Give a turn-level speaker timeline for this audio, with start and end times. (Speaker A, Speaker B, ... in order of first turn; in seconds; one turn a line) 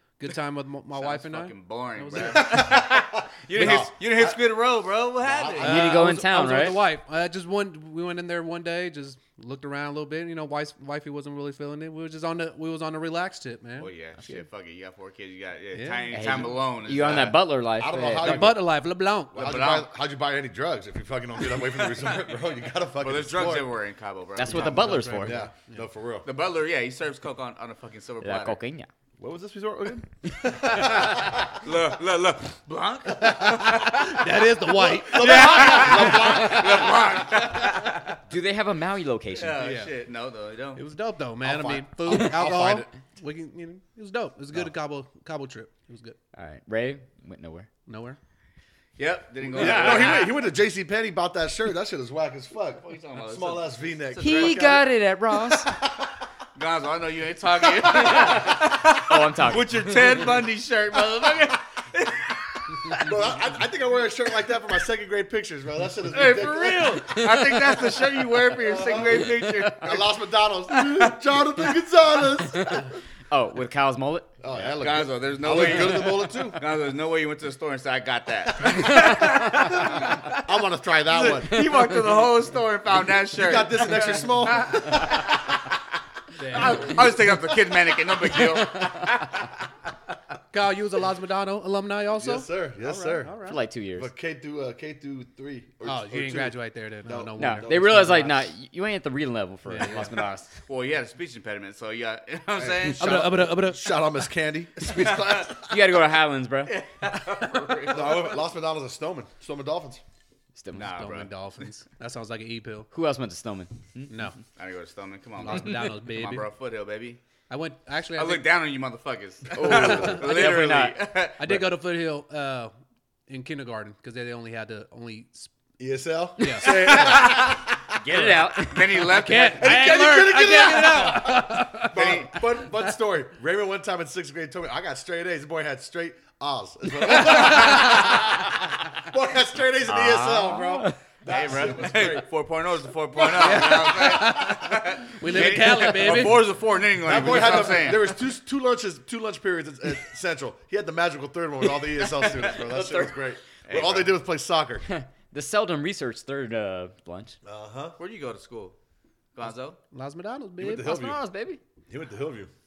Speaker A: 0.2-2.8
Speaker B: 0.9-5.7
Speaker C: 2.2-4.4
Speaker C: 5.2-5.9
Speaker D: 5.6-6.8
Speaker A: 5.6-13.9
Speaker B: 13.8-17.4
Speaker A: 15.7-16.4
Speaker D: 16.1-18.6
Speaker C: 17.8-18.7
Speaker A: 18.2-19.5
Speaker C: 19.3-23.7
Speaker B: 19.4-19.9
Speaker B: 23.0-24.8
Speaker D: 24.4-25.4
Speaker A: 24.4-25.8
Speaker C: 24.8-26.3
Speaker B: 26.2-28.6
Speaker D: 28.2-28.9
Speaker C: 29.2-31.5
Speaker B: 30.5-34.4
Speaker C: 33.3-33.9
Speaker A: 34.0-36.1
Speaker C: 34.7-37.2
Speaker B: 35.1-38.2
Speaker D: 36.1-36.9
Speaker D: 38.3-39.6
Speaker B: 39.4-40.8
Speaker A: 39.6-39.9
Speaker A: 40.8-46.2
Speaker C: 41.4-42.9
Speaker D: 46.3-47.7
Speaker A: 47.9-48.2
Speaker B: 49.0-50.3
Speaker C: 49.5-54.8
Speaker D: 49.5-50.2
Speaker B: 52.8-54.7
Speaker D: 54.2-55.7
Speaker C: 55.5-56.2
Speaker B: 56.6-63.1
Speaker D: 57.9-59.9
Speaker C: 58.0-58.4
Speaker C: 63.0-67.1
Speaker B: 66.1-70.1
Speaker D: 66.8-67.8
Speaker C: 68.6-73.0
Speaker D: 69.0-69.9
Speaker B: 70.7-71.2
Speaker D: 72.5-74.3
Speaker C: 74.4-76.6
Speaker B: 74.6-80.5
Speaker D: 75.5-76.2
Speaker C: 80.3-81.7
Speaker B: 81.1-85.6
Speaker D: 81.5-82.0
Speaker C: 83.4-85.4
Speaker A: 86.4-87.2
Speaker B: 86.5-89.5
Speaker D: 88.5-89.1
Speaker A: 90.5-93.6
Speaker C: 92.2-93.3
Speaker D: 93.5-94.1
Speaker C: 94.0-98.4
Speaker A: 95.8-98.3
Speaker D: 97.4-100.5
Speaker A: 99.7-100.1
Speaker B: 100.7-103.0
Speaker C: 102.6-105.8
Speaker A: 103.0-104.0
Speaker B: 104.9-105.5
Speaker D: 105.7-106.7
Speaker B: 106.7-108.4
Speaker C: 107.9-110.0
Speaker D: 110.5-111.0
Speaker B: 110.8-111.3
Speaker A: 110.8-112.9
Speaker D: 112.9-114.3
Speaker A: 114.1-114.4
Speaker B: 114.5-117.2
Speaker A: 115.4-116.5
Speaker D: 115.5-115.8
Speaker A: 117.5-118.5
Speaker B: 118.2-121.5
Speaker D: 119.5-121.0
Speaker C: 119.6-120.2
Speaker A: 119.7-120.2
Speaker A: 121.4-122.7
Speaker A: 123.3-125.5
Speaker C: 125.8-128.3
Speaker A: 126.4-127.3
Speaker D: 126.6-129.3
Speaker B: 128.7-129.7
Speaker A: 129.1-132.0
Speaker C: 129.6-142.3
Speaker B: 131.9-132.4
Speaker A: 137.1-138.1
Speaker B: 137.2-138.2
Speaker B: 139.9-140.6
Speaker D: 140.0-140.9
Speaker B: 141.3-148.0
Speaker C: 143.2-144.5
Speaker A: 143.3-146.5
Speaker C: 145.3-146.3
Speaker C: 147.0-154.8
Speaker A: 147.1-148.1
Speaker B: 152.1-153.1
Speaker B: 153.7-154.1
Speaker D: 154.8-157.4
Speaker C: 157.4-158.0
Speaker B: 158.0-158.8
Speaker B: 159.3-159.8
Speaker A: 159.9-160.9
Speaker C: 160.6-161.2
Speaker D: 160.8-161.6
Speaker C: 161.9-162.5